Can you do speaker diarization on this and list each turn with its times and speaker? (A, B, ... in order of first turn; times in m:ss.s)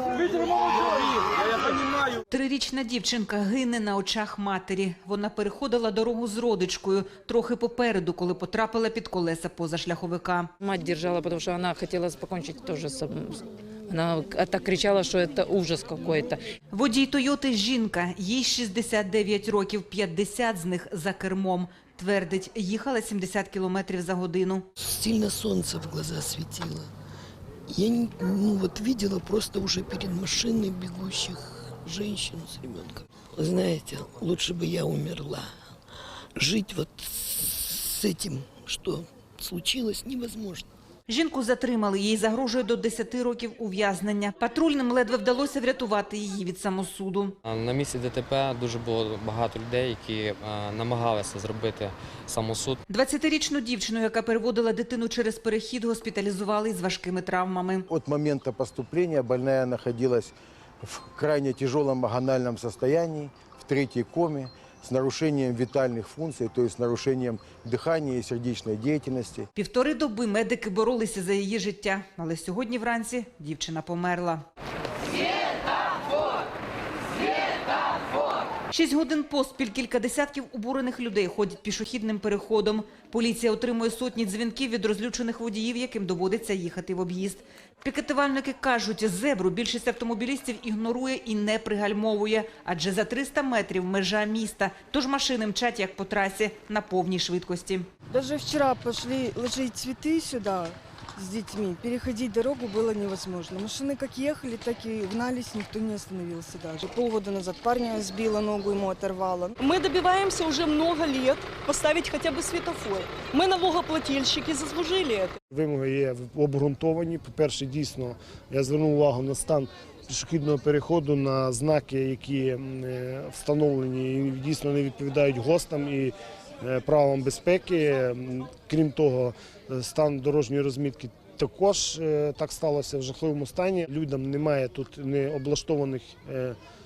0:02.3-0:10.5 A
0:10.6-0:16.4 B
0:16.7-0:24.7 A
0:24.9-0:26.9 C
0:27.8-0:35.4 C
0:36.4-0:40.6 C
0:41.1-0:47.4 A
0:47.4-0:52.8 D
0:52.9-0:57.9 A
0:57.9-1:09.5 E
1:09.6-1:14.4 A
1:18.7-1:37.9 A
1:38.1-1:49.5 F
1:49.6-1:55.4 G
1:55.5-2:16.6 H